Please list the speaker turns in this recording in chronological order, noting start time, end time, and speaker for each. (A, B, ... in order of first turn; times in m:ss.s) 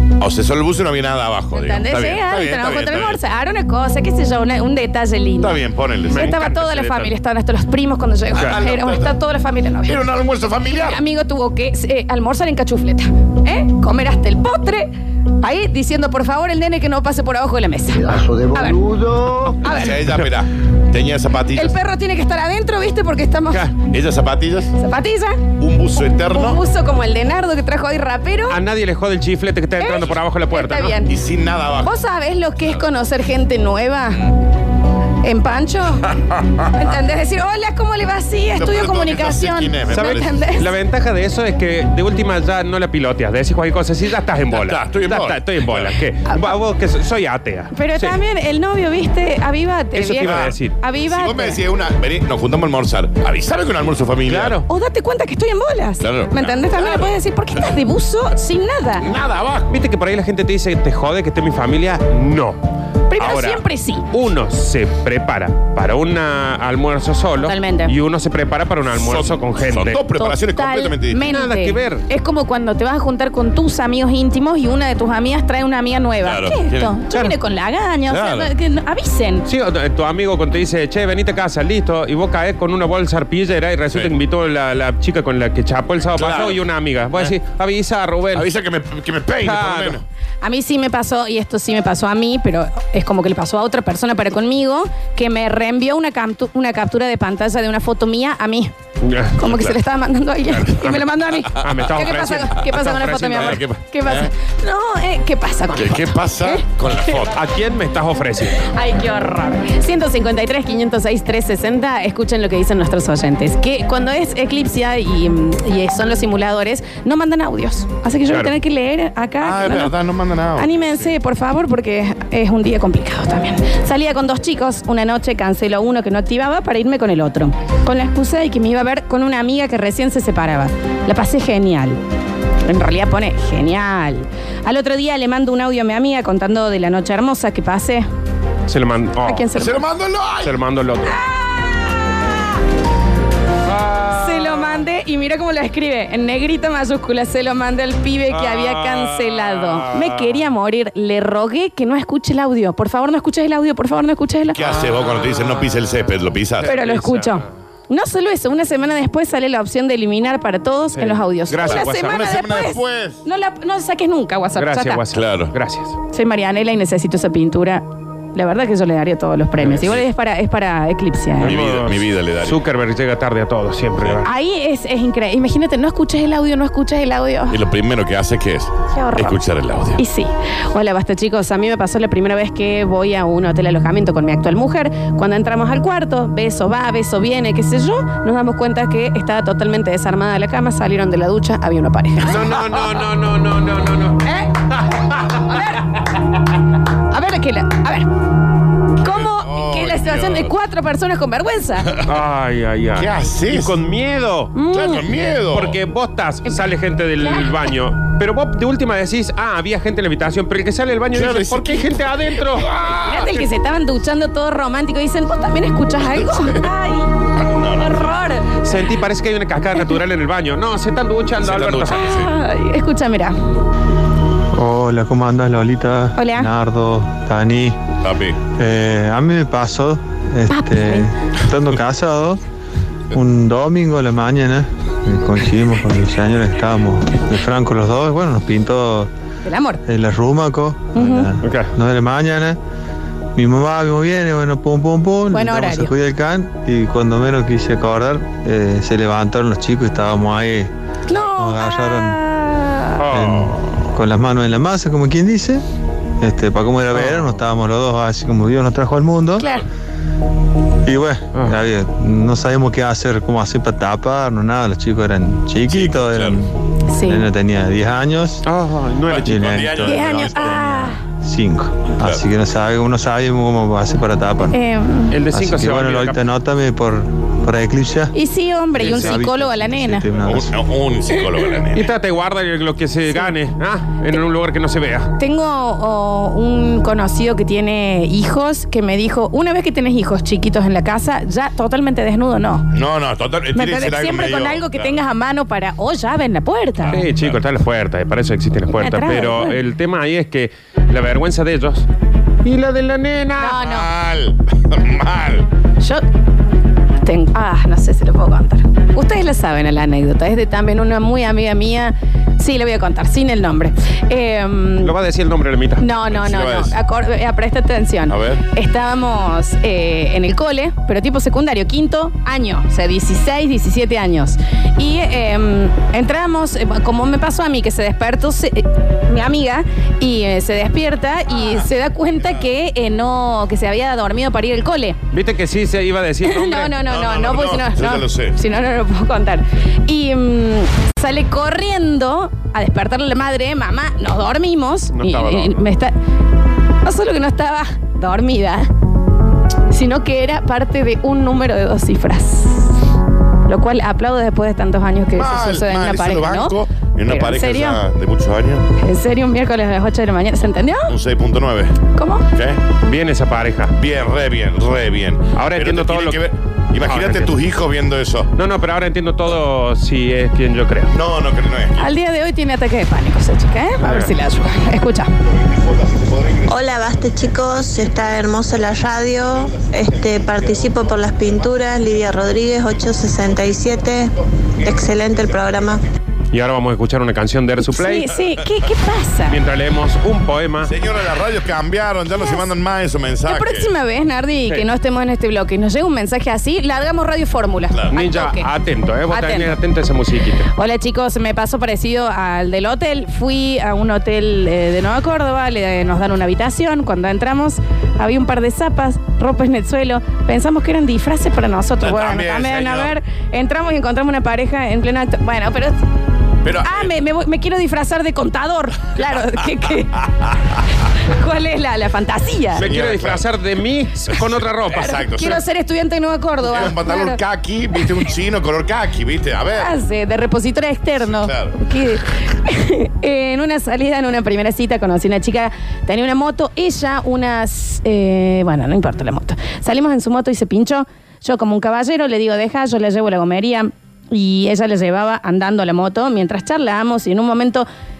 0:00.2-0:03.2 A
0:01.5-0:10.0 B
0:05.4-0:06.3 A
0:06.0-0:07.1 C
0:08.4-0:09.1 A
0:09.8-0:11.0 A
0:10.6-0:18.8 B
0:19.6-0:20.0 B
0:19.7-0:21.8 A
0:21.5-0:23.7 B
0:23.9-0:24.7 A
0:24.8-0:25.4 B
0:25.6-0:26.6 A
0:26.3-0:28.6 B
0:28.5-0:31.0 C
0:29.8-0:31.1 B
0:31.1-0:31.9 A
0:31.8-0:34.3 B
0:35.2-0:36.1 B
0:36.7-0:40.7 B
0:38.6-0:40.3 A
0:39.9-0:48.2 C
0:44.5-0:45.9 A
0:47.7-0:51.6 B
0:49.9-0:50.8 C
0:50.2-0:50.6 A
0:51.1-0:54.5 A
0:54.2-0:54.6 C
0:54.6-0:59.1 B
0:56.0-0:57.2 A
0:59.0-0:59.7 A
0:59.7-1:02.6 C
1:03.1-1:04.0 B
1:03.1-1:10.0 C
1:07.4-1:07.9 B
1:09.0-1:11.2 A
1:09.9-1:19.4 B
1:11.1-1:12.0 C
1:16.2-1:17.0 A
1:17.1-1:17.4 C
1:18.1-1:18.5 A
1:19.5-1:28.5 C
1:26.2-1:26.5 A
1:28.4-1:30.0 A
1:29.4-1:30.0 C
1:30.4-1:38.7 B
1:39.0-1:39.4 C
1:39.4-1:47.2 B
1:39.4-1:39.8 A
1:41.5-1:43.8 C
1:43.4-1:44.3 A
1:45.7-1:47.3 A
1:47.3-1:48.7 C
1:48.7-1:59.9 B
1:59.4-2:00.7 A
2:00.5-2:12.0 B
2:12.6-2:18.1 B
2:18.7-2:19.6 C
2:19.2-2:19.8 B
2:19.6-2:20.6 A
2:20.4-2:21.2 C
2:21.0-2:22.5 B
2:23.7-2:24.8 C
2:24.1-2:34.6 B
2:28.3-2:30.4 C
2:34.5-2:36.7 A
2:36.6-2:37.5 C
2:36.6-2:45.0 B
2:40.9-2:42.2 C
2:41.6-2:43.2 A
2:44.6-2:46.0 C
2:45.1-2:45.5 A
2:46.1-2:51.5 B
2:49.6-2:50.0 C
2:51.4-2:54.3 C
2:51.4-2:52.5 A
2:54.2-2:57.6 B
2:57.5-3:00.0 A
2:58.9-2:59.4 B
3:00.0-3:12.4 B
3:12.2-3:14.2 C
3:15.3-3:15.8 B
3:17.1-3:18.1 B
3:19.0-3:21.9 B
3:19.0-3:20.5 A
3:22.0-3:24.5 C
3:23.0-3:23.8 A
3:24.5-3:25.0 B
3:24.7-3:25.8 A
3:25.5-3:32.7 C
3:27.2-3:27.5 B
3:31.1-3:31.9 A
3:32.8-3:33.4 A
3:33.0-3:38.5 B
3:37.5-3:38.0 A
3:38.6-3:42.2 C
3:41.4-3:42.3 A
3:41.9-3:43.4 B
3:44.5-3:47.8 D
3:46.2-3:46.5 B
3:48.0-3:48.4 A
3:48.6-3:52.4 D
3:50.5-3:51.1 B
3:53.1-3:59.1 D
3:59.4-3:59.8 B
3:59.8-4:02.6 D
4:00.9-4:01.3 B
4:01.4-4:01.7 C
4:03.3-4:12.2 D
4:05.3-4:05.9 B
4:11.1-4:13.0 B
4:13.0-4:13.6 C
4:13.1-4:15.6 D
4:16.2-4:19.4 D
4:16.9-4:17.4 C
4:19.4-4:19.6 B
4:20.8-4:28.4 D
4:25.6-4:26.4 A
4:26.9-4:27.3 B
4:28.4-4:29.7 C
4:29.1-4:30.6 A
4:29.2-4:34.6 D
4:29.8-4:31.0 B
4:34.5-4:35.2 B
4:35.1-4:36.2 C
4:35.3-4:38.1 D
4:38.1-4:40.1 B
4:38.7-4:40.5 D
4:38.8-4:39.2 C
4:40.2-4:41.9 A
4:41.1-4:41.4 B
4:41.7-4:45.1 C
4:45.2-4:52.7 B
4:52.7-4:55.0 A
4:53.5-4:57.0 B
4:56.9-5:01.9 C
4:57.1-4:57.4 A
4:58.7-4:59.6 B
5:02.4-5:03.6 C
5:03.4-5:03.9 B
5:03.6-5:05.5 A
5:07.0-5:14.9 B
5:14.8-5:15.9 C
5:15.8-5:35.0 B
5:16.0-5:16.8 A
5:18.1-5:18.4 A
5:35.1-5:36.7 C
5:36.2-5:45.9 B
5:36.9-5:38.4 A
5:44.9-5:45.7 C
5:46.8-5:48.7 B
5:49.7-5:52.7 B
5:53.5-5:57.8 B
5:55.1-5:58.6 A
5:58.8-6:00.9 B
6:00.9-6:01.8 A
6:01.9-6:02.2 B
6:02.3-6:02.6 A
6:02.8-6:03.7 C
6:03.8-6:08.3 A
6:05.3-6:07.4 C
6:08.3-6:10.9 C
6:10.9-6:11.9 A
6:11.8-6:15.1 B
6:13.8-6:14.1 C
6:16.5-6:24.1 E
6:24.8-6:25.7 E
6:26.3-6:28.1 C
6:27.6-6:29.4 B
6:29.3-6:30.7 C
6:30.7-6:33.7 A
6:32.1-6:32.4 B
6:33.2-6:38.5 B
6:37.9-6:40.5 C
6:39.1-6:39.6 B
6:40.5-6:55.8 B
6:51.8-6:52.9 A
6:56.4-6:56.9 A
6:56.6-7:00.3 B
7:01.0-7:02.7 B
7:02.6-7:05.0 C
7:02.6-7:03.2 A
7:04.7-7:07.2 B
7:04.8-7:05.4 A
7:06.5-7:09.7 A
7:09.5-7:27.7 B
7:11.0-7:11.6 A